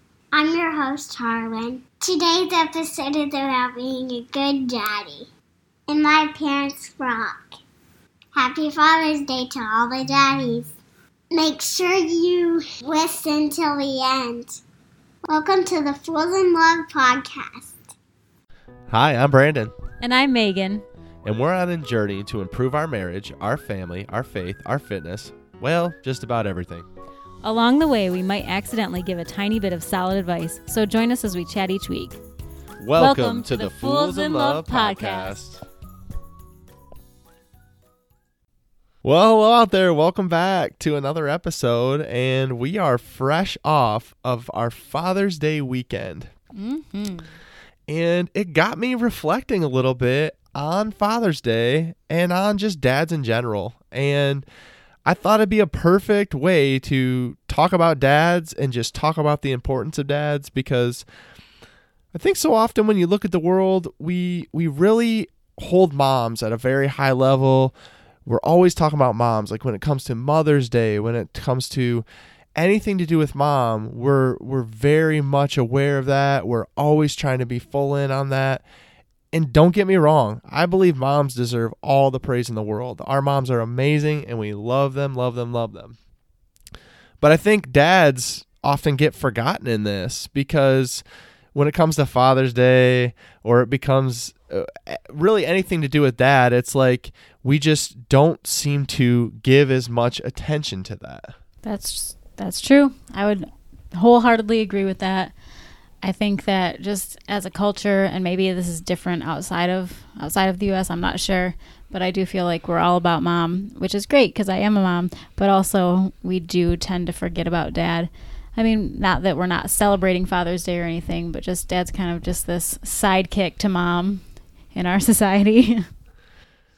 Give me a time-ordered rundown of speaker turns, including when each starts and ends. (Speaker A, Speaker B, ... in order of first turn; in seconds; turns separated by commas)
Speaker A: 0.3-5.3, Speaker A: 5.9-7.6, Speaker A: 8.3-10.8, Speaker A: 11.3-14.6, Speaker A: 15.3-17.9, Speaker B: 18.9-19.7, Speaker C: 20.0-20.9, Speaker B: 21.2-26.9, Speaker C: 27.4-32.2, Speaker B: 32.8-35.6, Speaker C: 33.0-35.4, Speaker B: 39.0-46.3, Speaker C: 46.5-47.3, Speaker B: 47.9-54.5, Speaker B: 55.0-61.0, Speaker B: 62.1-67.8, Speaker B: 68.3-78.6, Speaker B: 79.3-86.0, Speaker B: 87.2-91.0, Speaker B: 91.5-101.3, Speaker C: 101.6-105.3, Speaker C: 106.0-124.2, Speaker C: 124.7-125.9